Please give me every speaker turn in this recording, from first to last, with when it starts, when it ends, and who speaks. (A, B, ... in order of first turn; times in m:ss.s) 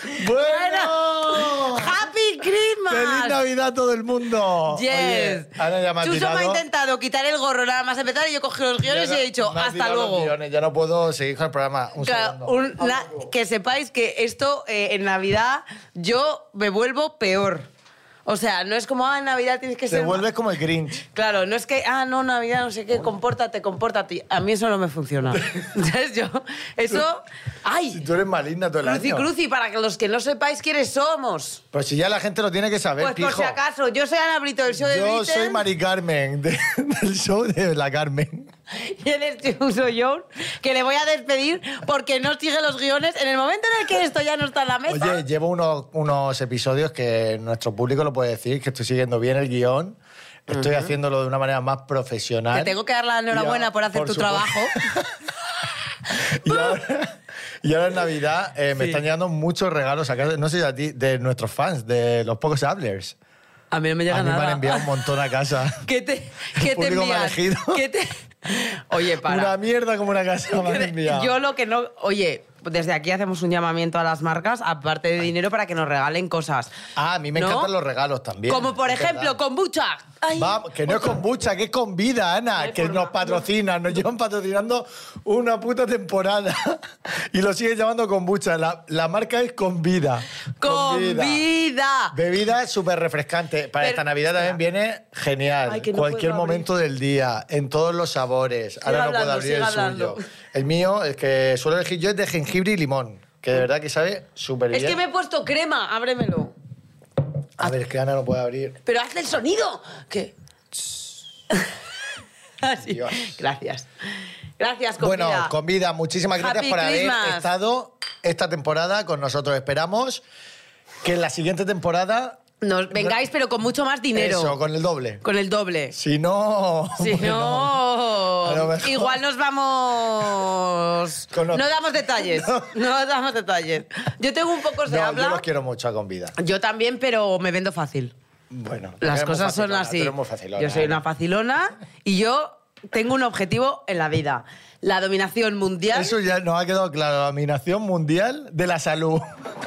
0:00.1-0:02.0 A
0:00.3-0:03.4 B
0:02.9-0:06.6 A
0:04.7-0:10.3 B
0:08.8-0:13.3 A
0:12.0-0:17.7 B
0:18.3-0:20.2 B
0:19.9-0:21.0 A
0:21.1-0:28.0 B
0:25.3-0:25.7 A
0:27.9-0:29.3 A
0:28.8-0:31.6 B
0:31.7-0:33.6 A
0:33.0-0:35.6 B
0:34.7-0:38.5 A
0:38.7-0:45.2 B
0:44.9-0:52.8 A
0:50.5-0:50.9 B
0:52.5-0:54.8 B
0:53.3-0:55.1 A
0:56.1-1:03.2 A
1:03.7-1:05.0 B
1:04.1-1:05.8 A
1:05.8-1:09.5 B
1:06.6-1:07.8 A
1:09.2-1:11.3 A
1:10.5-1:16.7 B
1:17.0-1:19.4 A
1:17.4-1:17.7 B
1:18.5-1:21.2 B
1:20.4-1:31.4 A
1:22.6-1:23.4 B
1:30.6-1:32.1 B
1:32.1-1:45.0 A
1:33.8-1:34.6 B
1:35.7-1:36.7 B
1:38.8-1:40.2 B
1:44.7-1:46.6 B
1:47.6-1:48.8 A
1:48.8-1:50.3 B
1:52.6-1:53.9 B
1:52.9-1:53.3 A
1:54.6-1:55.5 B
1:55.0-2:00.2 A
1:56.3-1:57.5 B
2:01.0-2:02.4 A
2:02.6-2:04.6 B
2:04.1-2:05.2 A
2:05.2-2:06.0 B
2:05.9-2:07.8 A
2:07.0-2:15.4 B
2:08.4-2:09.2 A
2:11.3-2:12.7 A
2:14.8-2:16.4 A
2:16.4-2:18.1 B
2:18.5-2:21.0 A
2:19.0-2:26.2 B
2:25.9-2:29.4 A